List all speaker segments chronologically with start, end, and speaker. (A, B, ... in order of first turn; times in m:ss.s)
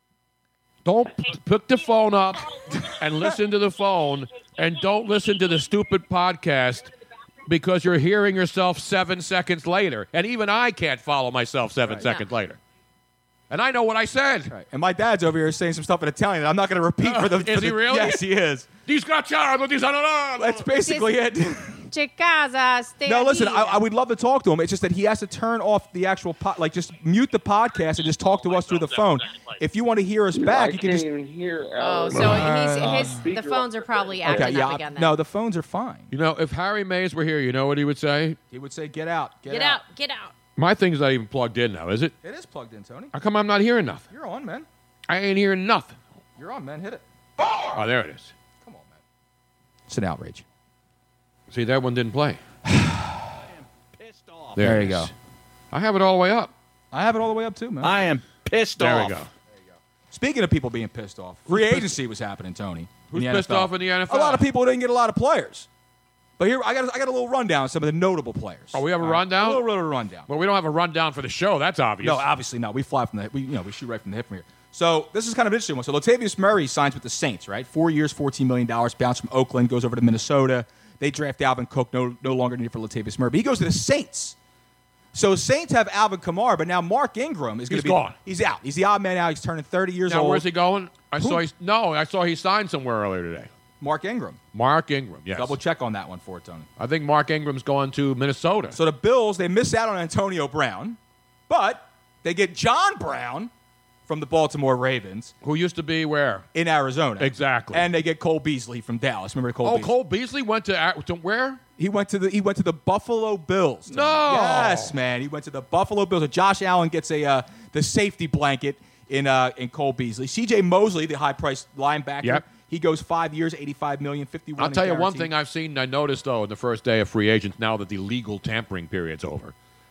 0:00.8-0:06.9 A
0:07.5-0:12.6 A
0:13.5-0:14.5 A
0:14.5-0:18.7 B
0:17.0-0:18.2 A
0:18.9-0:20.7 A
0:20.4-0:21.9 B
0:20.8-0:21.2 C
0:21.9-0:23.8 C
0:23.1-0:31.0 B
0:30.3-0:34.6 D
0:31.8-0:35.1 C
0:32.2-0:33.2 B
0:34.3-0:36.1 B
0:36.1-0:38.4 A
0:38.5-0:39.8 B
0:39.5-0:40.3 C
0:40.6-0:42.1 A
0:42.2-0:43.1 B
0:43.1-0:44.0 A
0:44.1-0:44.7 B
0:45.1-0:46.0 A
0:46.4-0:47.0 B
0:47.7-0:48.3 A
0:48.6-0:49.0 B
0:49.9-0:50.4 B
0:51.5-0:52.4 A
0:52.7-0:53.4 B
0:54.0-0:54.6 E
0:54.6-0:55.1 A
0:54.6-0:55.1 B
0:55.7-0:56.5 A
0:56.9-0:58.0 B
0:57.8-0:59.2 E
0:58.8-0:59.3 A
1:00.1-1:05.7 B
1:01.5-1:02.0 A
1:03.1-1:04.5 A
1:06.4-1:10.3 B
1:08.7-1:09.6 A
1:10.3-1:12.3 A
1:12.0-1:24.4 B
1:25.1-1:30.4 B
1:27.7-1:28.2 A
1:30.1-1:33.5 A
1:31.2-1:31.4 B
1:33.8-1:34.4 B
1:34.5-1:35.6 A
1:35.4-1:36.7 B
1:36.8-1:38.8 A
1:38.7-1:41.0 B
1:41.5-1:43.5 B
1:44.1-1:45.3 B
1:45.4-1:46.5 A
1:46.5-1:49.9 B
1:47.2-1:47.9 A
1:49.6-1:51.6 A
1:51.8-2:05.3 B
1:53.9-1:55.0 A
2:04.6-2:09.5 A